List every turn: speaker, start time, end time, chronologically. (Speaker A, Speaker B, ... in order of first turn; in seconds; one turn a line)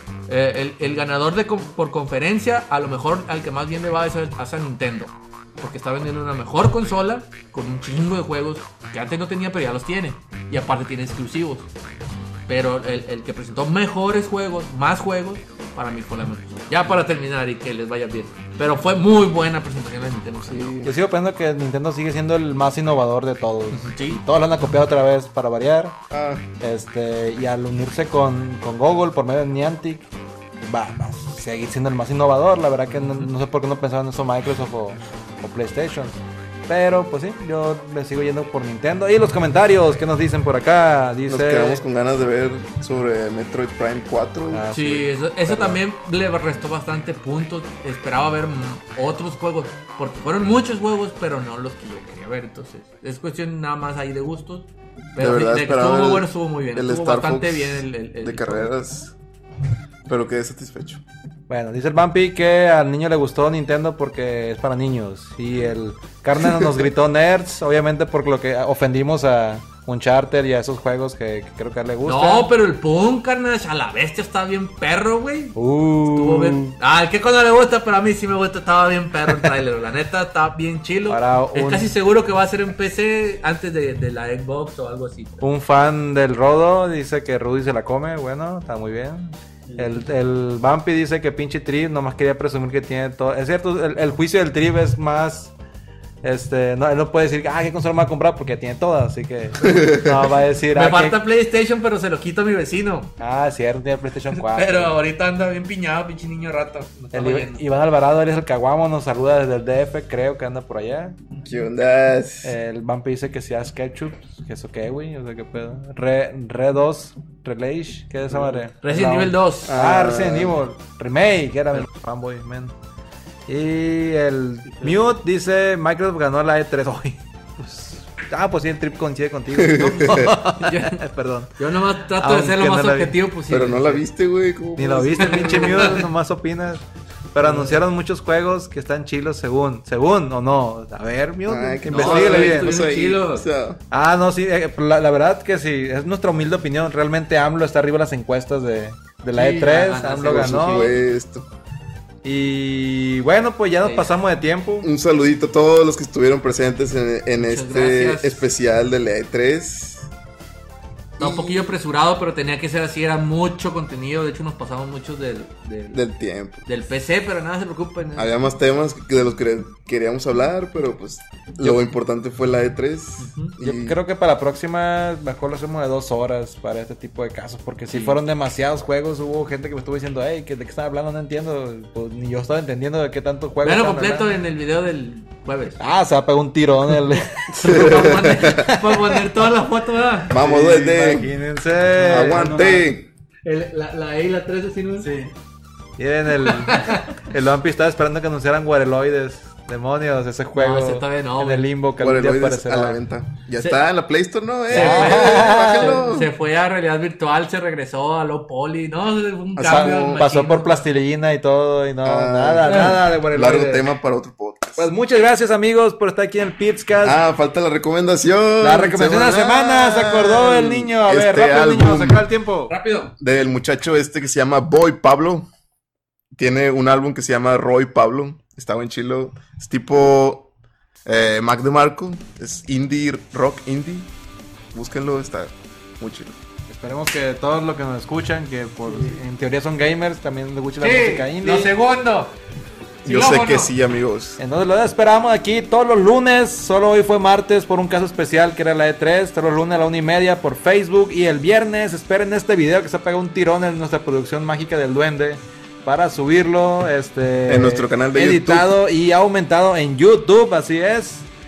Speaker A: 0.3-11.7
Speaker A: 12.5-20.7
Speaker B: 20.5-20.9
Speaker C: 20.8-26.0
Speaker A: 23.7-24.2
Speaker B: 26.1-26.4
Speaker C: 26.6-41.8
Speaker B: 41.3-44.7
Speaker C: 44.5-45.1
Speaker A: 44.7-58.7
Speaker B: 45.5-45.8
Speaker B: 55.2-59.1
Speaker B: 60.1-61.0
Speaker C: 61.5-72.5
Speaker A: 72.0-85.5
Speaker C: 75.5-76.8
Speaker C: 81.1-81.9
Speaker C: 85.4-95.5
Speaker C: 96.2-101.2
Speaker A: 99.6-99.9
Speaker B: 99.6-100.1
Speaker A: 100.7-103.1
Speaker C: 103.2-104.9
Speaker A: 104.3-107.6
Speaker C: 107.1-111.2
Speaker B: 111.4-112.5
Speaker C: 112.4-122.7
Speaker A: 118.8-119.8
Speaker B: 119.7-120.6
Speaker C: 123.5-131.6
Speaker A: 124.7-125.1
Speaker B: 129.5-130.4
Speaker A: 130.6-131.0
Speaker A: 131.6-134.0
Speaker C: 132.2-133.2
Speaker B: 133.5-136.0
Speaker C: 134.8-142.8
Speaker A: 135.2-136.1
Speaker A: 137.4-137.8
Speaker B: 141.5-143.8
Speaker A: 141.9-143.4
Speaker C: 143.9-151.0
Speaker A: 149.3-151.0
Speaker B: 150.2-151.5
Speaker C: 152.2-154.9
Speaker A: 153.8-154.1
Speaker B: 154.8-160.1
Speaker A: 157.4-158.4
Speaker B: 161.2-161.8
Speaker A: 161.2-166.0
Speaker B: 165.9-166.7
Speaker A: 166.7-168.3
Speaker B: 168.2-174.0
Speaker A: 173.2-173.5
Speaker C: 173.6-184.3
Speaker A: 177.9-178.2
Speaker A: 183.6-185.8
Speaker C: 185.8-189.2
Speaker B: 187.5-188.6
Speaker A: 187.6-190.3
Speaker B: 190.3-191.3
Speaker C: 190.3-192.9
Speaker B: 191.9-193.1
Speaker A: 193.4-195.1
Speaker C: 195.0-195.3
Speaker C: 196.0-203.0
Speaker A: 196.4-197.2
Speaker A: 200.6-201.7
Speaker B: 202.0-206.3
Speaker A: 204.7-210.8
Speaker C: 204.7-206.1
Speaker B: 209.6-210.2
Speaker C: 209.7-213.9
Speaker B: 212.0-214.9
Speaker A: 212.7-213.0
Speaker C: 214.8-217.2
Speaker B: 217.0-222.3
Speaker C: 218.6-222.7
Speaker A: 222.7-223.1
Speaker B: 223.2-225.5
Speaker B: 226.3-230.5
Speaker B: 231.1-234.1
Speaker B: 234.7-236.4
Speaker C: 236.7-241.7
Speaker A: 240.8-242.3
Speaker A: 243.1-243.7
Speaker B: 243.1-244.4
Speaker C: 244.4-261.3
Speaker B: 257.5-258.8